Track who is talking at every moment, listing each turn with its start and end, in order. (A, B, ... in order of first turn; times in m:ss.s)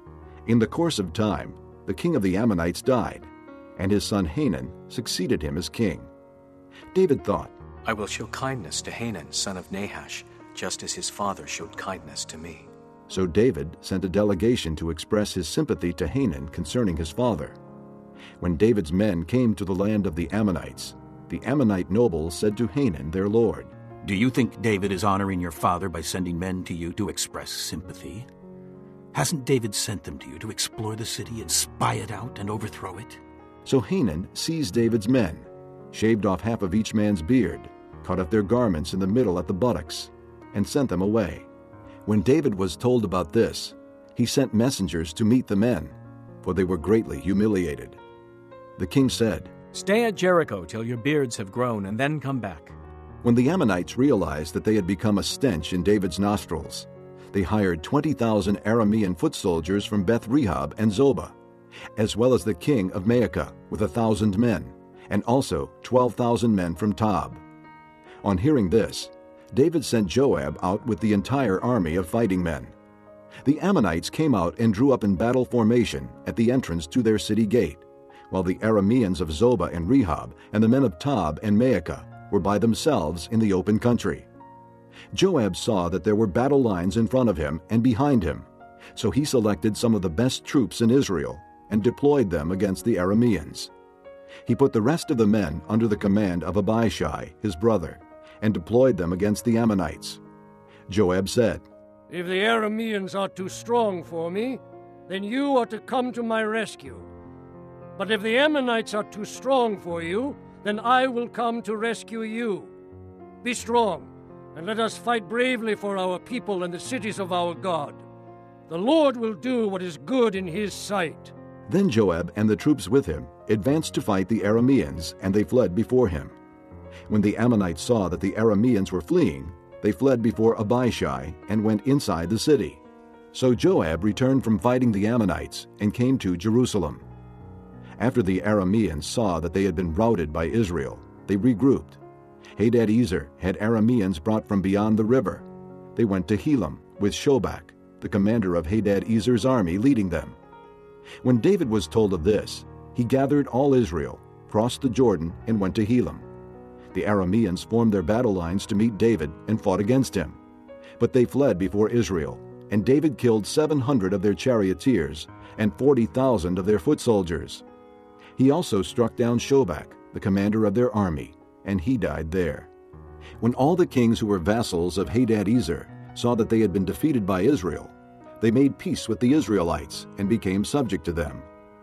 0:00.4-0:06.1 A
0:06.9-0:07.5 A
0:07.8-0:12.7 B
0:13.1-0:17.6 A
0:18.4-0:23.7 A
0:24.0-0:28.3 C
0:29.1-0:33.2 C
0:33.6-0:41.4 A
0:42.0-0:48.0 A
0:48.8-0:49.5 A
0:49.7-0:52.7 D
0:53.2-1:01.3 A
1:02.0-1:07.4 A
1:08.2-1:12.7 A
1:13.4-1:24.3 A
1:25.1-1:33.7 A
1:34.4-1:40.2 A
1:40.9-1:41.6 A
1:42.1-1:47.0 E
1:48.0-1:52.7 E
1:53.4-1:58.0 E
1:58.7-2:01.3 E
2:01.7-2:06.3 A
2:07.1-2:12.8 A
2:13.3-2:17.0 A
2:18.0-2:22.0 A
2:22.6-2:25.4 A
2:25.9-2:30.4 A
2:31.2-2:36.3 A
2:36.9-2:40.4 A
2:41.0-2:47.6 A
2:48.4-2:52.7 A
2:53.4-3:01.4 A